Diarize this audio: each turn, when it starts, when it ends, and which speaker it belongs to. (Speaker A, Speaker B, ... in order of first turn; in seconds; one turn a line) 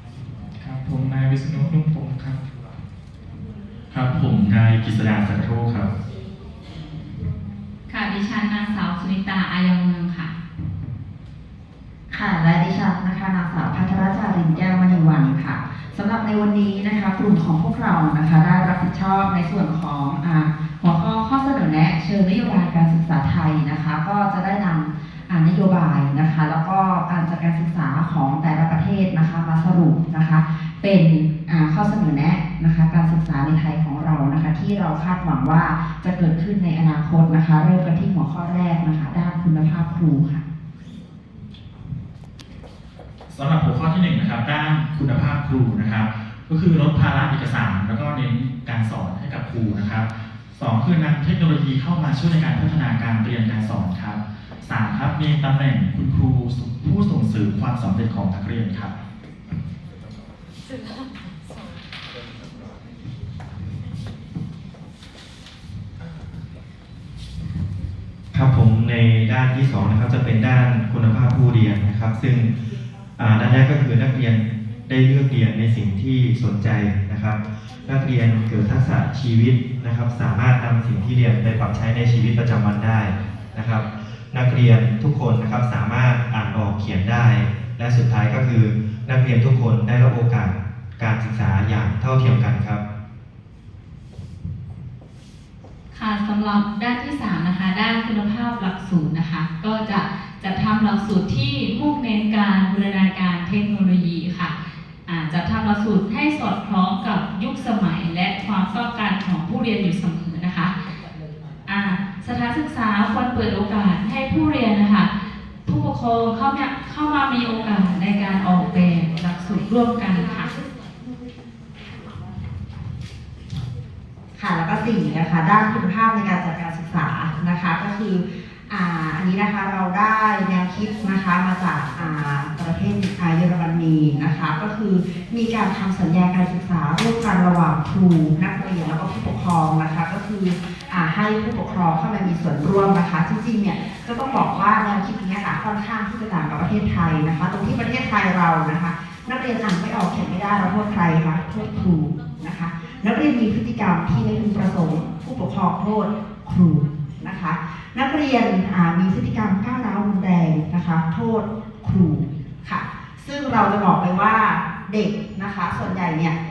Speaker A: 0.6-2.4
Speaker A: 3.9-5.9
Speaker B: 7.9-10.3
Speaker C: 12.1-40.4
Speaker A: 43.3-59.0
Speaker D: 68.3-72.5
Speaker D: 73.2-92.8
Speaker B: 95.9-110.7
Speaker B: 111.7-120.5
Speaker C: 124.4-166.3